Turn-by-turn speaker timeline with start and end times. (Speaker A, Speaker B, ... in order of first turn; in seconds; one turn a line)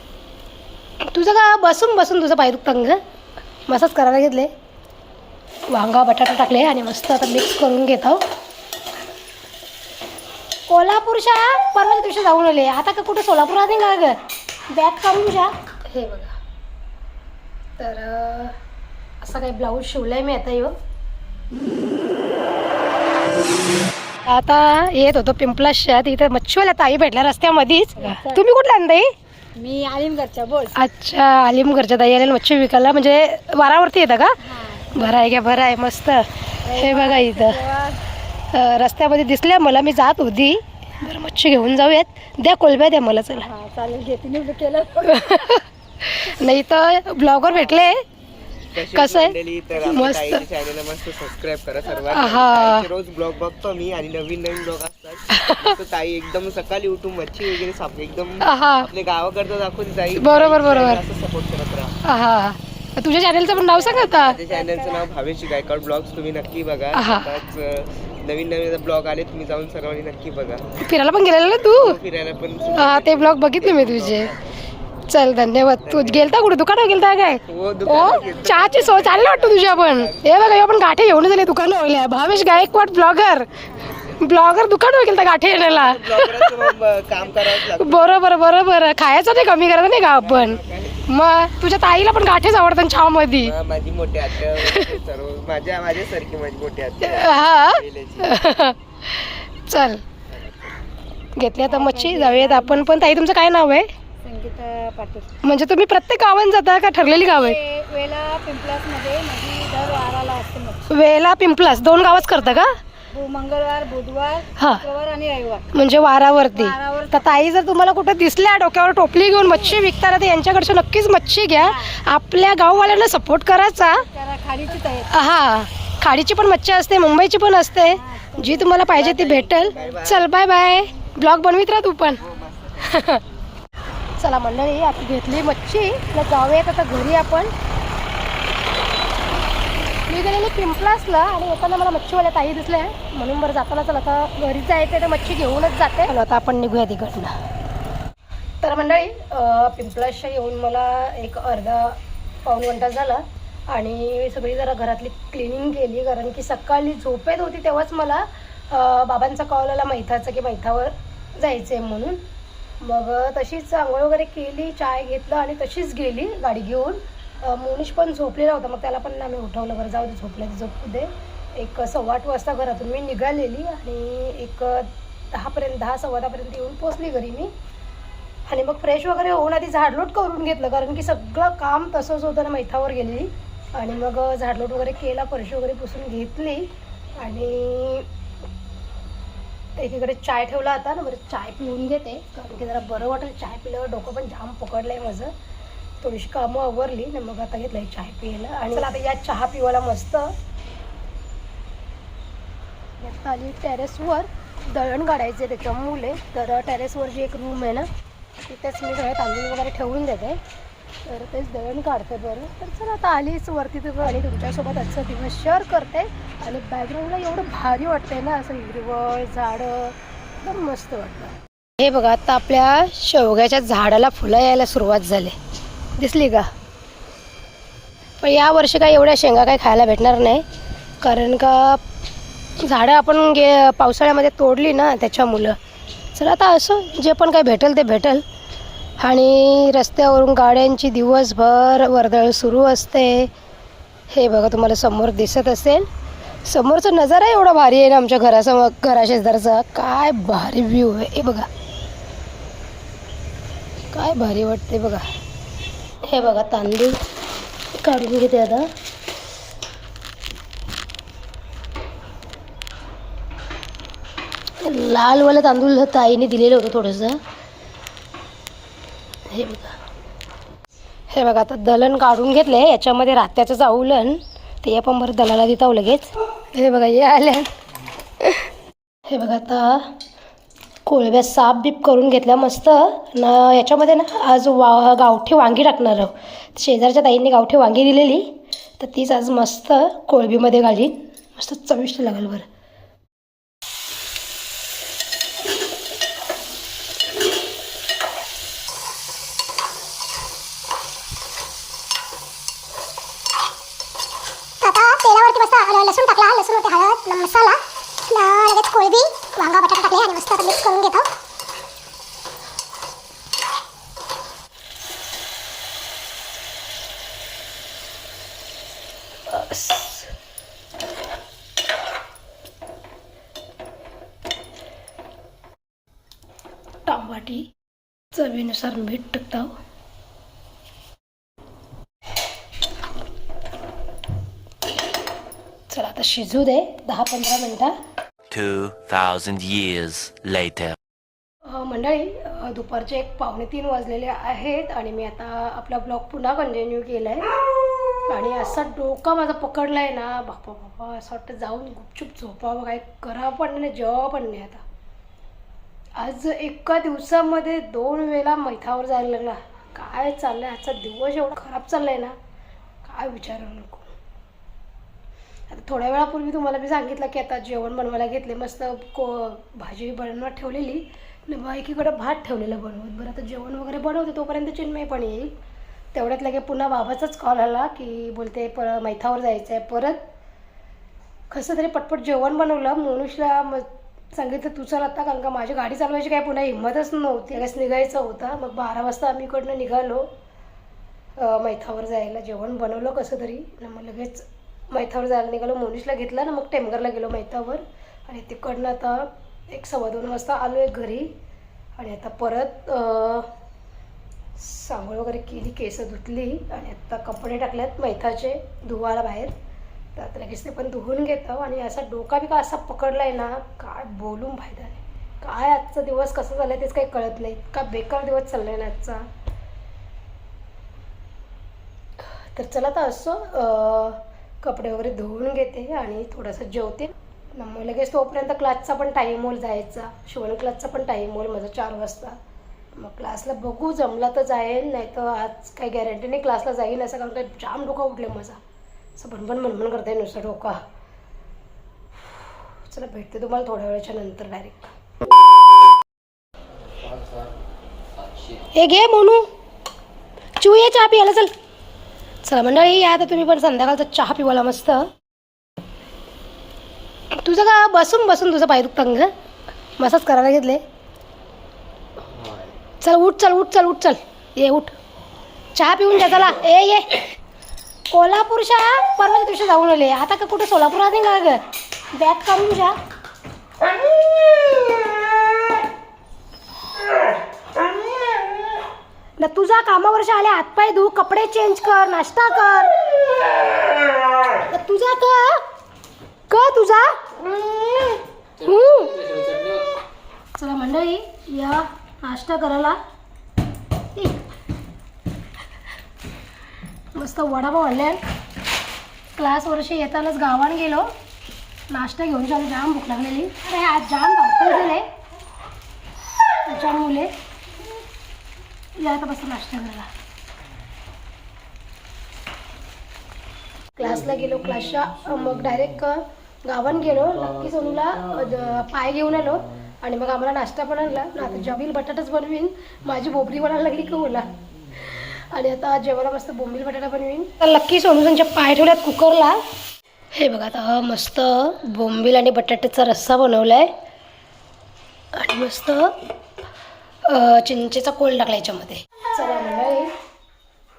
Speaker A: 1.0-3.0
Speaker A: 3.7-4.5
Speaker A: 5.7-8.2
Speaker A: 10.7-14.2
Speaker A: 14.7-16.4
Speaker A: 17.8-18.6
Speaker A: 19.2-20.7
Speaker A: 24.3-29.1
Speaker B: 28.0-28.4
Speaker B: 29.6-30.8
Speaker A: 30.8-34.4
Speaker B: 34.4-35.3
Speaker A: 34.9-37.6
Speaker B: 36.6-38.0
Speaker A: 38.5-43.5
Speaker B: 43.4-45.3
Speaker A: 45.1-48.0
Speaker B: 47.4-47.9
Speaker C: 48.7-62.0
Speaker A: 48.9-50.5
Speaker A: 52.1-52.9
Speaker A: 55.3-55.7
Speaker A: 58.4-58.9
Speaker A: 60.1-61.0
Speaker A: 62.0-64.4
Speaker B: 63.4-65.1
Speaker C: 64.2-70.7
Speaker A: 66.9-67.3
Speaker A: 70.8-72.0
Speaker C: 71.7-74.6
Speaker A: 72.6-74.3
Speaker A: 75.1-83.5
Speaker C: 75.8-76.3
Speaker C: 77.5-80.5
Speaker B: 77.9-79.5
Speaker B: 82.4-82.8
Speaker B: 83.7-84.1
Speaker A: 84.2-86.7
Speaker C: 85.5-88.2
Speaker A: 87.6-93.5
Speaker C: 90.0-91.1
Speaker C: 93.4-98.4
Speaker A: 94.6-95.0
Speaker A: 97.0-100.0
Speaker C: 100.3-100.7
Speaker A: 101.3-103.9
Speaker B: 101.7-103.3
Speaker B: 104.2-105.3
Speaker A: 105.4-107.6
Speaker B: 107.0-111.0
Speaker A: 110.9-112.8
Speaker B: 111.8-115.7
Speaker A: 114.6-114.8
Speaker A: 115.7-124.0
Speaker B: 116.3-117.5
Speaker B: 119.4-119.8
Speaker B: 121.6-122.0
Speaker B: 123.9-125.1
Speaker A: 125.1-132.2
Speaker B: 127.9-130.0
Speaker C: 128.9-130.3
Speaker C: 132.2-133.3
Speaker A: 132.9-133.2
Speaker A: 134.2-137.5
Speaker A: 140.1-147.3
Speaker A: 148.6-162.2
Speaker A: 162.8-177.5
Speaker A: 178.5-188.1
Speaker A: 189.8-195.3
Speaker A: 196.0-200.3
Speaker A: 203.0-207.9
Speaker A: 208.4-210.4
Speaker A: 211.1-225.4
Speaker A: 226.0-226.5
Speaker A: 228.2-230.4
Speaker A: 231.0-231.8
Speaker A: 232.6-235.6
Speaker A: 236.1-238.2
Speaker A: 239.0-243.3
Speaker A: 244.1-245.9
Speaker A: 246.4-251.5
Speaker A: 253.9-255.1
Speaker A: 256.1-257.0
Speaker A: 257.8-258.6
Speaker A: 264.6-267.2
Speaker A: 269.3-269.8
Speaker A: 271.1-277.5
Speaker A: 279.1-279.9
Speaker A: 280.9-292.5
Speaker D: 304.6-311.1
Speaker A: 319.3-320.1
Speaker A: 326.9-327.5
Speaker A: 328.1-329.5
Speaker A: 335.7-337.8
Speaker E: 338.3-340.8
Speaker A: 341.4-347.2
Speaker A: 348.1-354.6
Speaker A: 356.0-362.1
Speaker A: 362.8-363.9
Speaker A: 365.5-375.3
Speaker A: 375.9-380.0
Speaker A: 381.3-390.1
Speaker A: 391.2-401.1
Speaker A: 401.8-403.3
Speaker A: 404.4-409.4
Speaker A: 409.9-419.0
Speaker A: 422.4-432.2
Speaker A: 432.8-438.4
Speaker A: 439.0-440.6
Speaker A: 442.7-444.7
Speaker A: 448.5-449.2
Speaker A: 450.4-451.3
Speaker A: 452.2-454.9
Speaker A: 457.1-459.1
Speaker A: 459.8-460.6
Speaker A: 462.8-464.8
Speaker A: 465.5-467.1
Speaker A: 467.9-471.4
Speaker A: 471.9-472.8
Speaker A: 479.2-482.7
Speaker A: 484.5-485.4
Speaker A: 486.3-486.9
Speaker A: 488.4-489.1
Speaker A: 490.4-492.8
Speaker A: 496.9-498.0
Speaker A: 499.1-500.9
Speaker A: 501.7-504.9
Speaker A: 506.4-507.1
Speaker A: 508.8-509.9
Speaker A: 513.8-524.3
Speaker A: 525.0-529.4
Speaker A: 530.1-533.7
Speaker A: 535.1-535.9
Speaker A: 537.0-539.9